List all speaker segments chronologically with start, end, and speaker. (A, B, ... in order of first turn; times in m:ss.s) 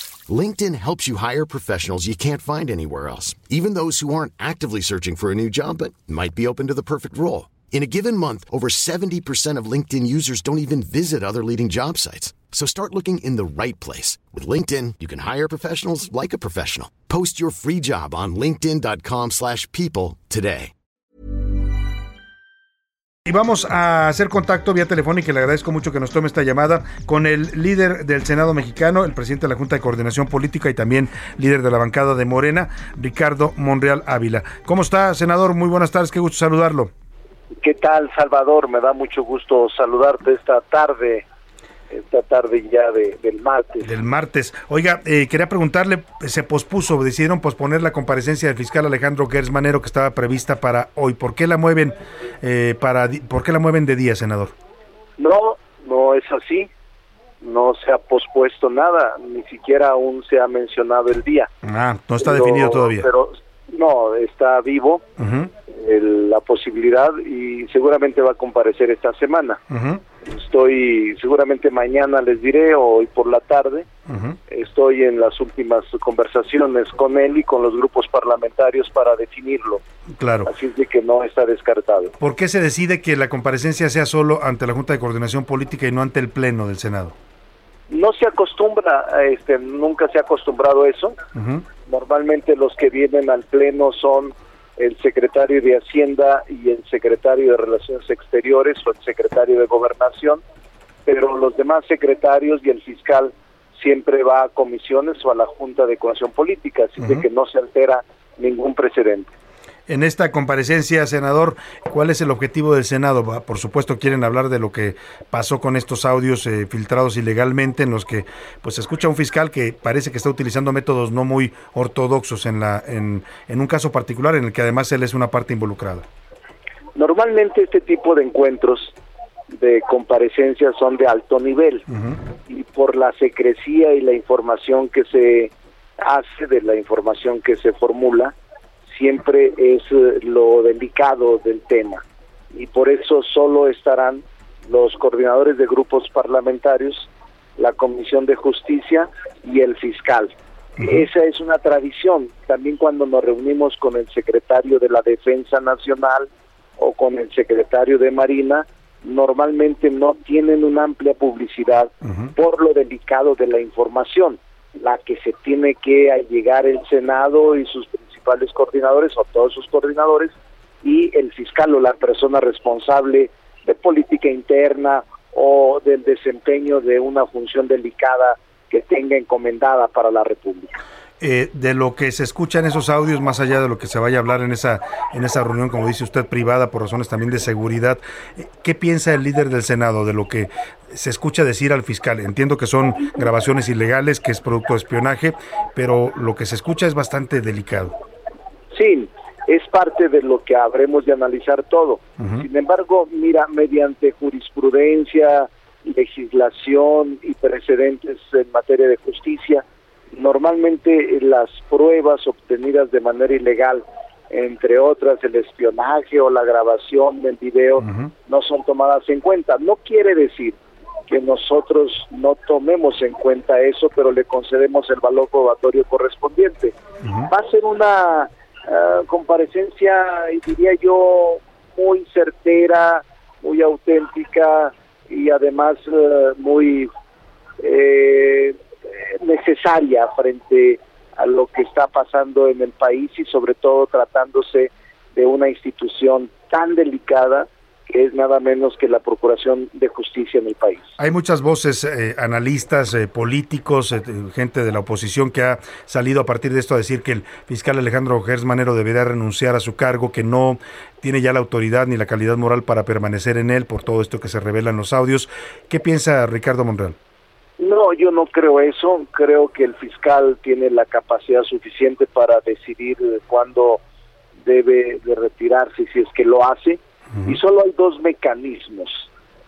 0:00.3-0:20.7 A
0:23.3-0:36.9 B
0:37.6-0:41.2 C
0:41.9-0:43.9 C
0:43.8-0:54.5 B
0:55.2-0:56.7 C
0:57.4-1:01.5 C
1:01.6-1:03.1 B
1:02.2-1:05.0 C
1:05.2-1:05.5 B
1:05.7-1:09.6 C
1:09.7-1:10.0 B
1:10.2-1:13.9 C
1:14.1-1:14.4 B
1:14.5-1:19.8 C
1:20.2-1:20.5 B
1:20.5-1:22.1 C
1:22.2-1:27.1 B
1:27.9-1:31.2 C
1:31.4-1:31.6 B
1:31.9-1:40.4 C
1:41.1-1:49.3 C
1:47.0-1:47.2 B
1:49.9-2:06.0 B
2:07.0-2:09.0 C
2:09.5-2:11.8 C
2:11.9-2:12.1 B
2:12.5-2:18.4 C
2:18.9-3:00.8 C
3:01.2-3:18.0 B
3:18.7-3:46.8 C
3:22.2-3:22.4 B
3:47.3-3:56.9 C
3:57.6-4:10.9 C
4:11.0-4:27.0 B
4:27.6-4:33.8 C
4:34.4-4:39.1 C